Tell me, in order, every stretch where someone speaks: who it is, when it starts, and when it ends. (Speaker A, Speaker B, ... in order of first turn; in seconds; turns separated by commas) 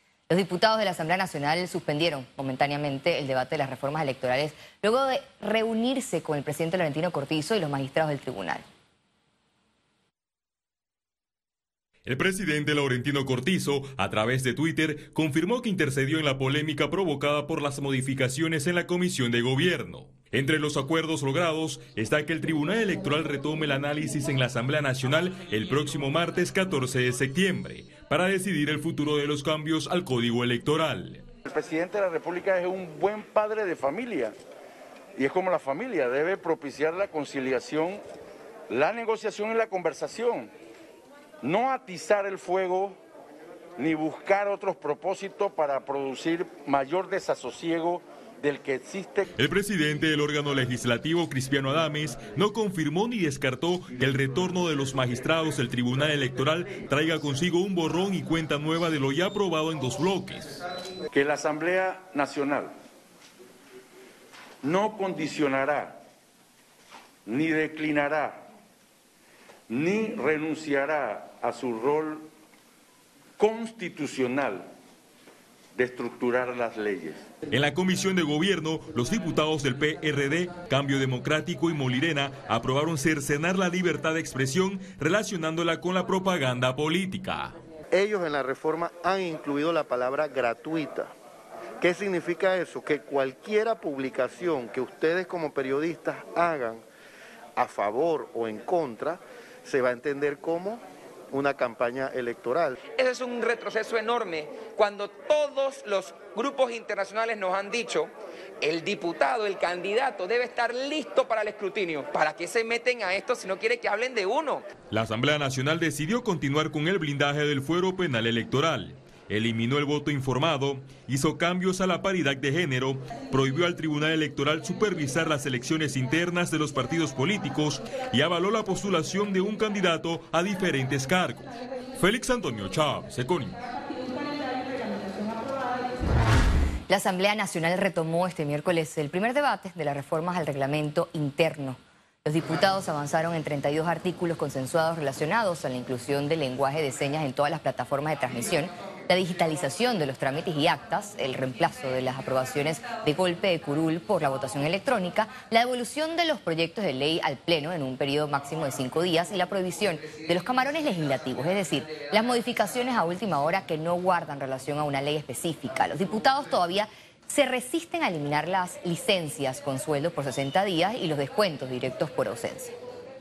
Speaker A: 0.3-8.6, Speaker B: 12.1-31.2, Speaker C: 31.4-34.3, Speaker C: 35.1-38.0, Speaker C: 38.7-40.5, Speaker C: 41.4-43.0, Speaker C: 43.8-49.3, Speaker B: 49.4-60.5, Speaker C: 61.1-62.7, Speaker C: 64.6-66.0, Speaker C: 67.2-68.5, Speaker C: 69.7-72.3, Speaker C: 73.4-74.7, Speaker C: 75.8-77.2, Speaker B: 77.5-87.5, Speaker D: 88.0-91.1, Speaker D: 91.8-96.8, Speaker D: 97.6-100.8, Speaker D: 101.3-102.8, Speaker E: 103.0-114.6, Speaker B: 114.9-133.6, Speaker A: 136.9-172.7